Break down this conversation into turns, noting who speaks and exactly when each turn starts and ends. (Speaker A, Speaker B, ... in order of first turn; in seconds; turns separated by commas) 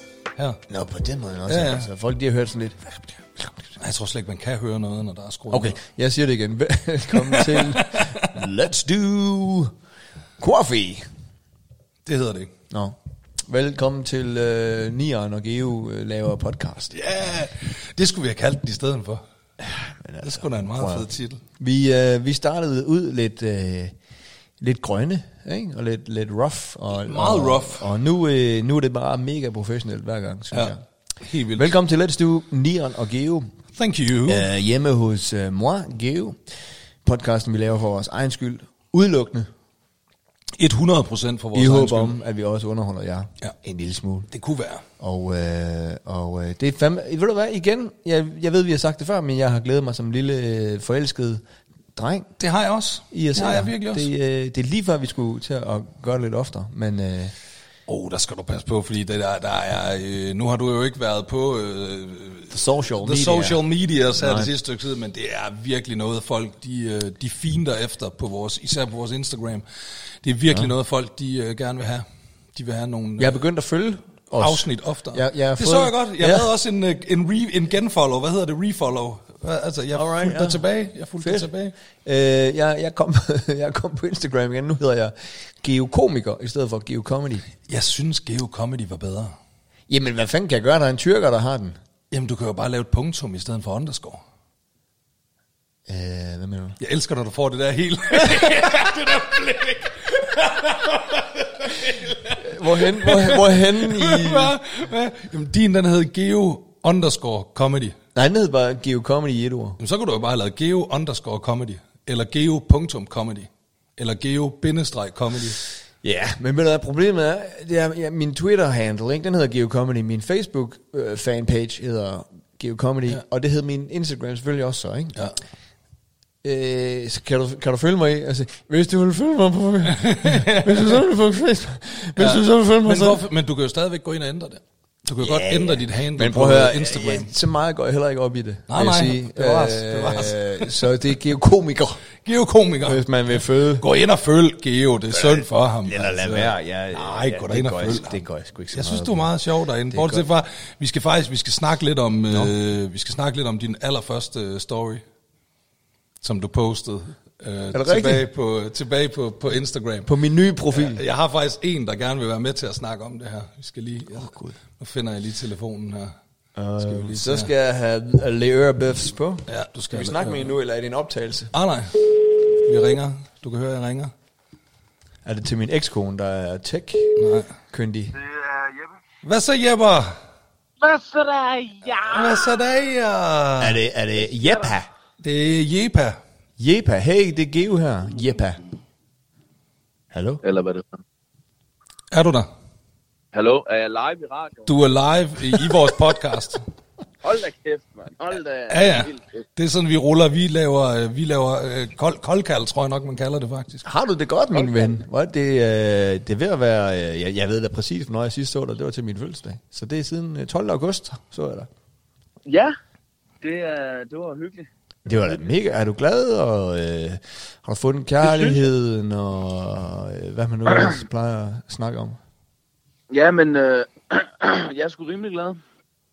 Speaker A: 0.7-3.5, Speaker B: 1.5-1.9, Speaker B: 3.8-5.8, Speaker A: 5.5-9.7, Speaker B: 7.2-8.4, Speaker A: 10.4-11.0, Speaker B: 12.1-12.5, Speaker A: 12.7-16.9, Speaker B: 16.9-19.2, Speaker A: 19.6-21.1, Speaker B: 20.2-21.4, Speaker A: 21.6-24.0, Speaker A: 24.6-30.8, Speaker B: 26.9-27.9, Speaker B: 30.5-31.7, Speaker A: 31.6-33.5, Speaker B: 33.8-34.5, Speaker A: 34.3-36.4, Speaker A: 37.0-39.5, Speaker B: 40.6-42.2, Speaker A: 41.5-44.3, Speaker B: 44.3-44.8, Speaker A: 45.0-51.4, Speaker A: 51.9-52.3, Speaker B: 52.4-54.1, Speaker A: 53.1-57.4, Speaker B: 57.9-69.6, Speaker A: 62.5-63.6, Speaker A: 64.2-64.5, Speaker B: 70.2-72.0, Speaker B: 72.5-73.4, Speaker A: 73.2-76.5, Speaker B: 74.3-81.7, Speaker A: 79.9-80.7, Speaker A: 81.2-81.5, Speaker A: 82.0-87.5, Speaker B: 87.7-89.3, Speaker A: 89.9-91.8, Speaker B: 92.1-94.2, Speaker A: 95.9-96.8, Speaker B: 96.8-108.0, Speaker A: 102.4-104.5, Speaker A: 108.2-109.8, Speaker B: 109.8-115.6, Speaker A: 116.0-125.2, Speaker A: 126.4-133.2, Speaker B: 129.9-131.0, Speaker B: 132.2-137.3, Speaker A: 135.2-142.1, Speaker B: 138.7-140.8, Speaker B: 142.2-143.1, Speaker A: 142.8-143.9, Speaker B: 143.8-148.2, Speaker A: 145.1-149.3, Speaker B: 148.7-155.0, Speaker A: 149.9-150.2, Speaker B: 156.2-160.1, Speaker A: 157.7-158.3, Speaker A: 160.1-161.0, Speaker B: 160.7-166.1, Speaker A: 164.1-164.6, Speaker A: 166.6-171.5, Speaker B: 166.8-167.5, Speaker B: 169.5-170.5, Speaker B: 171.5-174.1, Speaker A: 175.2-178.2, Speaker B: 177.2-177.5, Speaker C: 178.2-178.9, Speaker B: 179.2-180.2, Speaker C: 180.8-182.4, Speaker B: 182.0-183.8, Speaker A: 183.6-184.9, Speaker B: 185.2-186.2, Speaker A: 186.6-188.6, Speaker A: 190.1-190.4, Speaker C: 190.4-191.0, Speaker B: 192.1-192.5, Speaker C: 193.3-194.7, Speaker B: 194.7-196.6, Speaker C: 197.2-199.4, Speaker B: 198.7-203.8, Speaker A: 203.8-211.7, Speaker C: 204.6-204.9, Speaker C: 212.5-212.7, Speaker C: 213.4-215.3, Speaker A: 215.1-222.2, Speaker C: 218.2-218.6, Speaker C: 223.1-225.6